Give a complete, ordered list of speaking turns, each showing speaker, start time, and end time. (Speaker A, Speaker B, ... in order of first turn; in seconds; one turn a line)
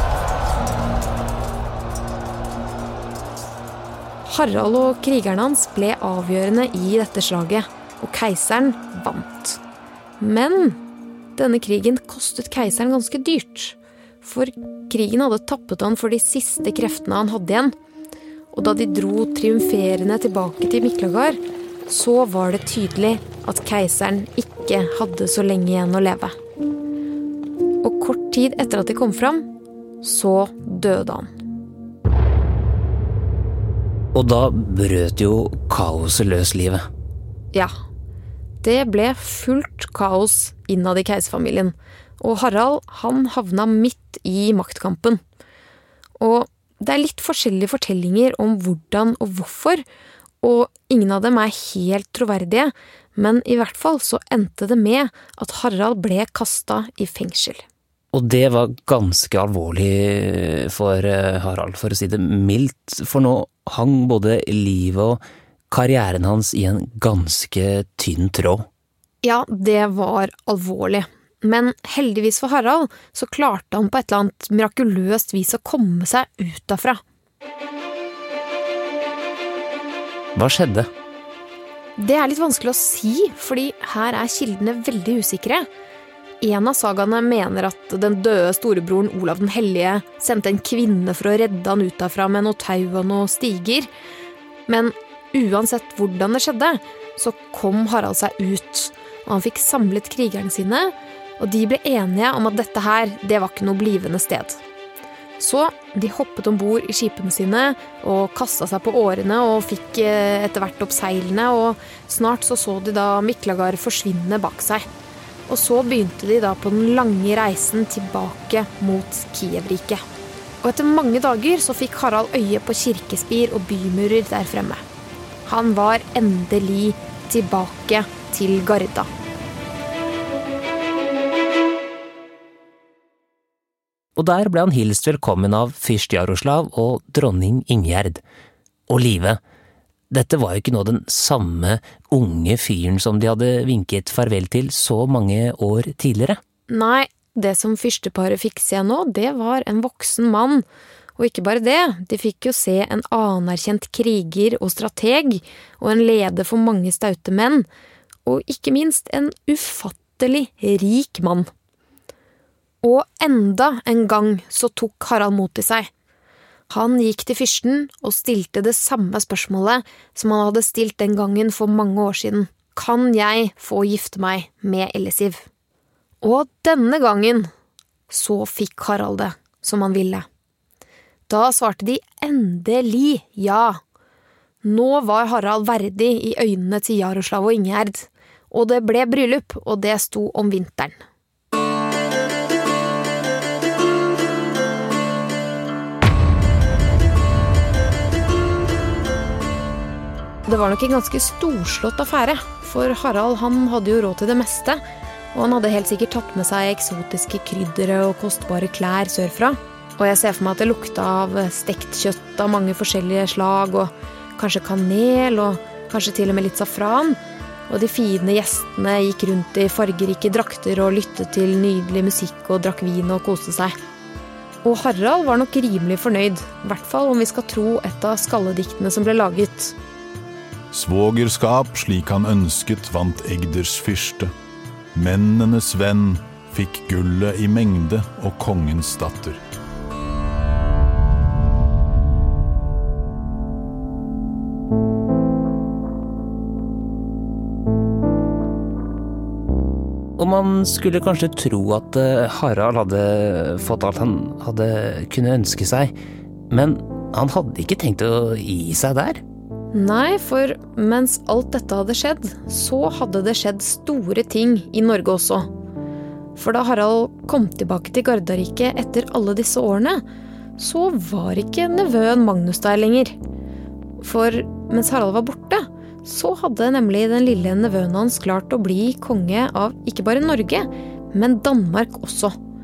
Speaker A: 4.2-9.6
Speaker A: 10.2-10.8
Speaker A: 11.3-17.7
Speaker A: 18.5-26.4
Speaker A: 27.8-29.5
Speaker A: 30.0-31.3
Speaker B: 34.1-36.8
Speaker A: 38.6-45.2
Speaker A: 46.2-49.8
Speaker A: 50.4-57.6
Speaker B: 58.1-68.6
Speaker A: 69.2-77.0
Speaker B: 80.3-80.9
Speaker A: 82.0-85.7
Speaker A: 86.4-93.9
Speaker A: 94.7-104.6
Speaker A: 105.4-114.9
Speaker A: 115.5-120.0
Speaker A: 120.6-124.8
Speaker A: 125.5-129.1
Speaker B: 134.2-138.2
Speaker B: 138.9-139.4
Speaker B: 140.1-146.4
Speaker A: 146.7-150.6
Speaker A: 151.2-157.7
Speaker A: 158.2-161.5
Speaker A: 162.8-165.9
Speaker A: 166.7-175.4
Speaker A: 176.2-177.5
Speaker A: 178.1-180.2
Speaker A: 181.3-183.8
Speaker A: 184.6-191.0
Speaker A: 200.4-204.8
Speaker A: 205.3-223.7
Speaker A: 224.6-229.8
Speaker C: 230.7-234.3
Speaker C: 234.9-239.4
Speaker B: 250.2-255.9
Speaker B: 256.5-259.2
Speaker A: 259.7-265.5
Speaker A: 266.4-270.0
Speaker A: 270.6-273.1
Speaker A: 274.0-282.4